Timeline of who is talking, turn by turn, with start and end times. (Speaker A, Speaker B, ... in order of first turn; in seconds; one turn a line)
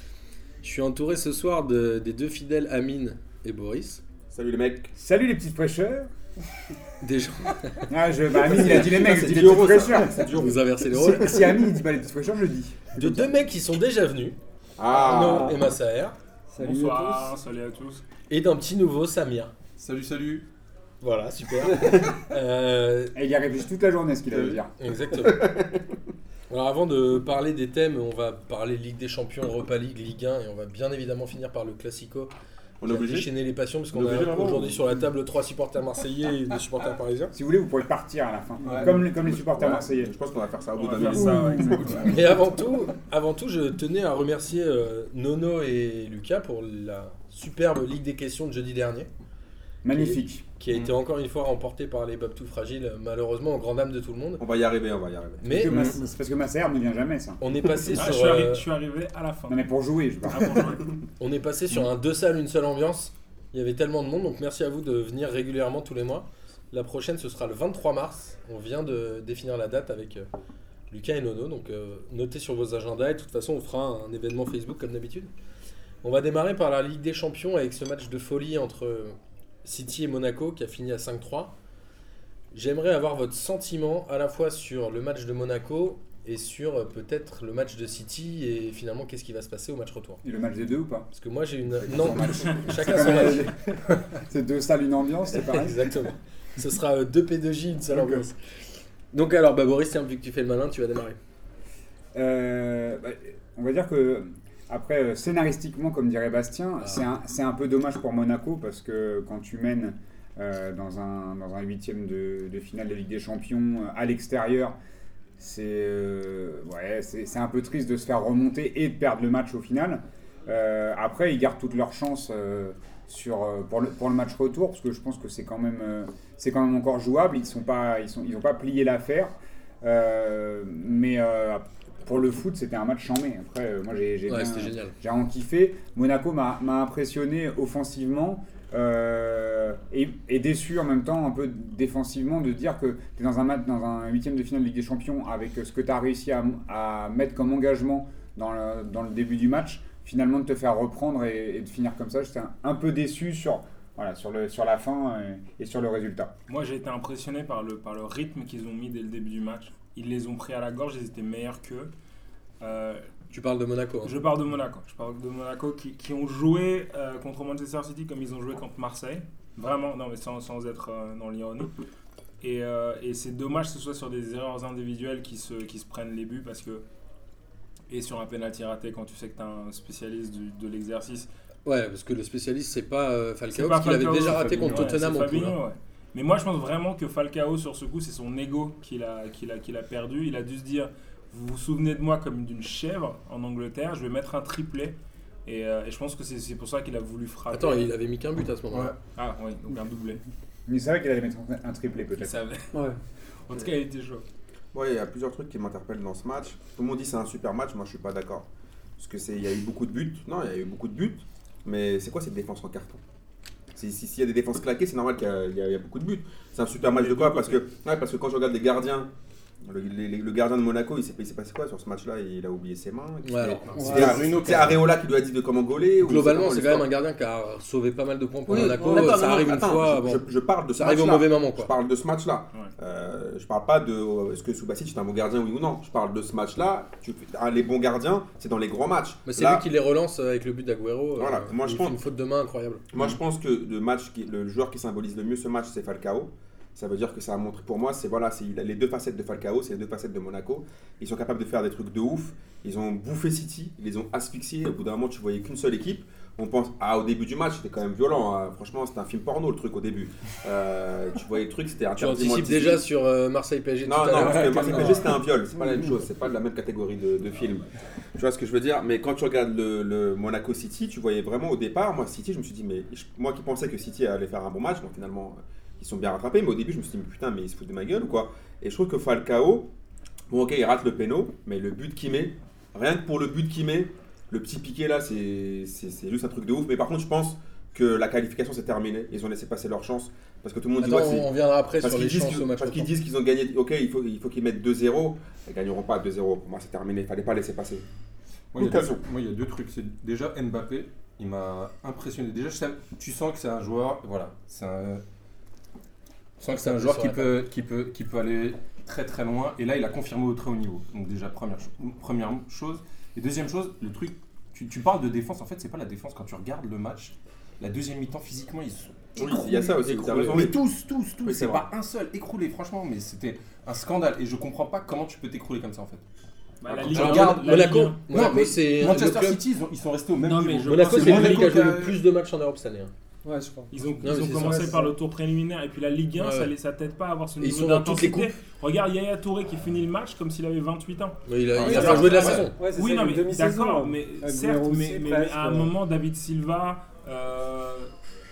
Speaker A: 0.6-4.0
Speaker B: 4.3-4.9
Speaker C: 5.0-6.1
Speaker A: 7.0-7.9
Speaker C: 7.9-10.3
Speaker B: 8.4-10.6
Speaker A: 10.3-11.5
Speaker C: 10.9-13.3
Speaker A: 12.9-14.4
Speaker B: 14.8-15.7
Speaker A: 14.9-16.2
Speaker D: 14.9-15.6
Speaker D: 16.5-17.3
Speaker E: 16.6-18.0
Speaker A: 18.3-19.6
Speaker F: 19.8-20.5
Speaker A: 21.0-23.1
Speaker C: 23.1-24.7
Speaker F: 24.3-24.6
Speaker A: 24.8-25.5
Speaker B: 25.1-25.9
Speaker A: 26.5-32.3
Speaker B: 32.8-33.3
Speaker A: 32.9-37.3
Speaker B: 34.0-34.9
Speaker F: 34.0-34.6
Speaker C: 37.3-40.1
Speaker F: 38.6-39.0
Speaker B: 38.7-42.4
Speaker E: 40.8-42.0
Speaker C: 41.0-42.1
Speaker F: 41.0-42.1
Speaker A: 42.0-49.1
Speaker C: 49.8-50.5
Speaker A: 49.9-54.4
Speaker B: 54.4-55.9
Speaker A: 55.4-56.0
Speaker C: 55.5-57.9
Speaker A: 57.4-58.7
Speaker E: 57.9-59.7
Speaker C: 59.5-60.7
Speaker E: 60.3-61.0
Speaker A: 61.2-70.3
Speaker A: 70.9-75.3
Speaker A: 76.0-81.5
Speaker A: 82.5-90.2
Speaker C: 90.2-91.1
Speaker A: 91.1-93.5
Speaker C: 91.7-96.0
Speaker A: 95.3-98.4
Speaker C: 97.9-98.2
Speaker A: 99.1-101.2
Speaker C: 102.1-114.8
Speaker C: 115.4-156.3
Speaker A: 134.3-134.9
Speaker E: 156.5-161.9
Speaker E: 162.6-163.1
Speaker A: 163.3-164.2
Speaker E: 164.0-171.7
Speaker E: 172.4-176.8
Speaker E: 177.9-181.3
Speaker A: 181.7-185.6
Speaker E: 183.5-194.9
Speaker F: 184.2-185.0
Speaker E: 195.5-197.9
Speaker A: 197.5-199.0
Speaker E: 199.2-200.2
Speaker C: 200.7-202.4
Speaker E: 202.2-202.7
Speaker E: 203.5-204.2
Speaker B: 204.7-208.4
Speaker B: 209.0-213.0
Speaker B: 213.7-219.1
Speaker F: 216.9-217.6
Speaker B: 219.7-226.9
Speaker A: 223.2-224.7
Speaker F: 223.7-224.8
Speaker D: 223.8-224.2
Speaker A: 226.0-230.2
Speaker B: 228.5-239.7
Speaker D: 228.5-229.1
Speaker A: 230.8-231.7
Speaker A: 239.3-242.8
Speaker B: 241.2-242.0
Speaker B: 242.9-262.8
Speaker A: 262.0-265.1
Speaker B: 263.9-279.7
Speaker F: 264.1-265.1
Speaker B: 280.3-297.9
Speaker A: 290.8-292.9
Speaker F: 298.5-305.0
Speaker B: 298.6-299.0
Speaker F: 306.4-326.0
Speaker A: 306.4-307.4
Speaker B: 319.2-320.7
Speaker A: 320.1-320.4
Speaker B: 321.2-321.7
Speaker E: 326.6-328.0
Speaker F: 326.7-332.0
Speaker A: 326.9-329.4
Speaker E: 330.2-331.7
Speaker A: 330.6-332.9
Speaker D: 333.2-334.9
Speaker E: 333.7-347.9
Speaker A: 334.0-334.8
Speaker A: 336.2-336.5
Speaker A: 337.4-338.3
Speaker A: 341.3-342.6
Speaker F: 341.6-342.5
Speaker B: 341.6-342.4
Speaker D: 341.7-342.0
Speaker D: 342.5-345.7